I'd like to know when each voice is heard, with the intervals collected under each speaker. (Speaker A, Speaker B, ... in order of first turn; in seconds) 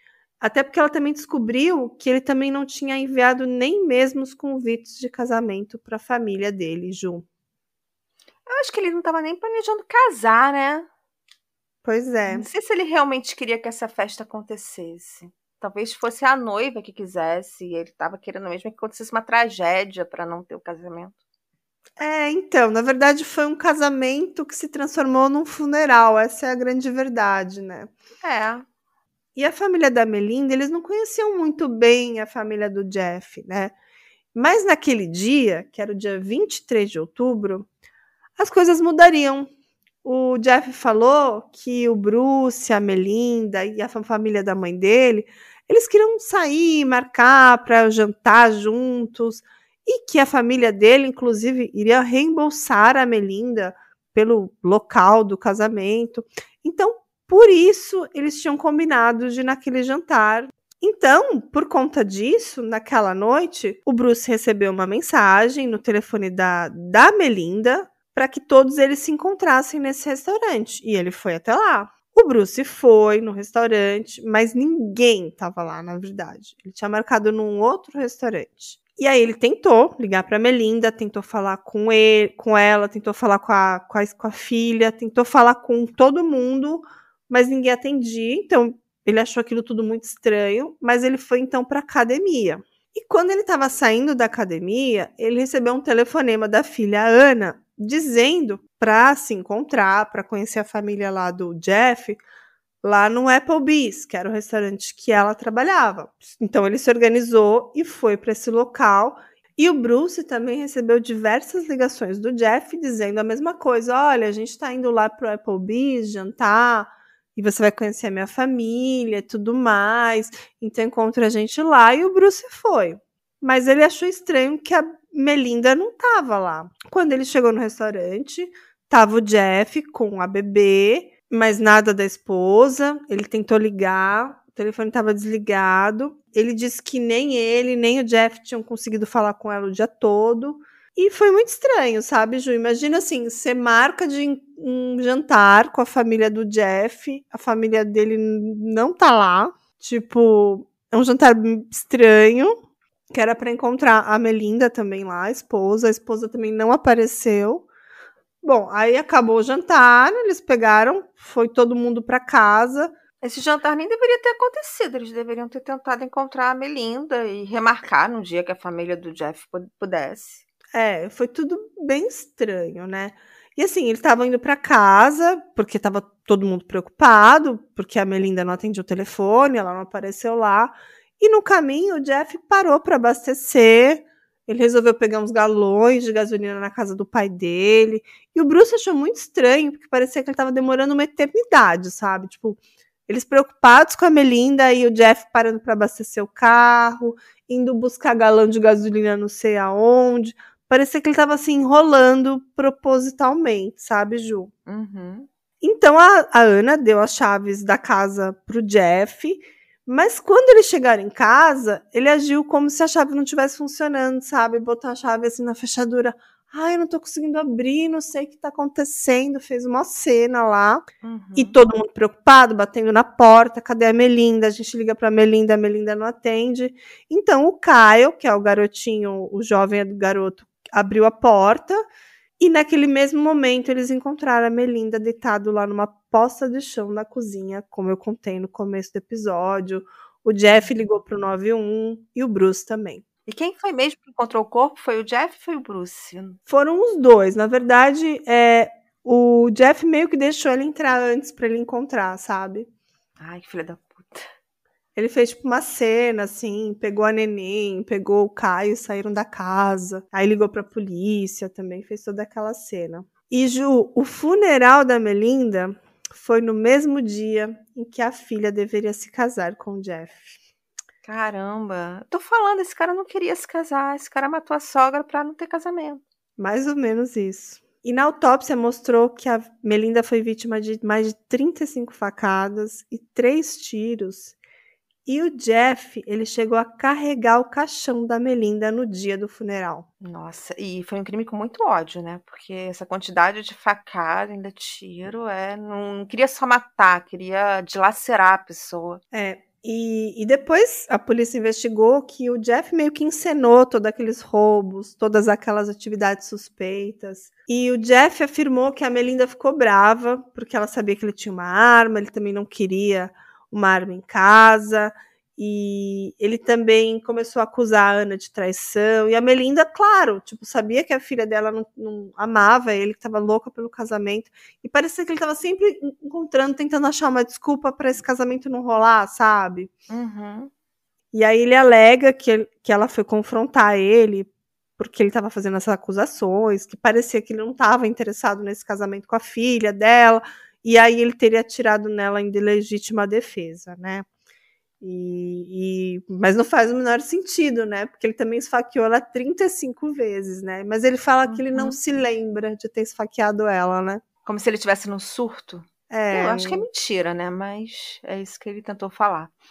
Speaker A: 0.4-7.2, 11.8-12.5, 22.0-27.9, 29.4-33.7, 34.3-37.7, 38.4-39.5, 40.0-102.2, 102.8-152.6, 153.1-157.7, 158.4-162.9, 170.7-204.5, 205.6-231.8, 232.4-243.0, 246.5-252.7, 254.9-270.4, 276.4-284.4, 285.1-289.9, 299.1-329.7, 331.1-344.1, 344.8-354.0, 355.9-356.6
Speaker B: 8.4-10.9, 12.3-21.1, 28.2-28.6, 163.2-170.4, 204.7-205.3, 221.0-221.6, 243.2-246.4, 253.2-254.3, 271.0-276.0, 290.0-299.0, 329.9-330.5, 351.3-351.8, 354.2-359.3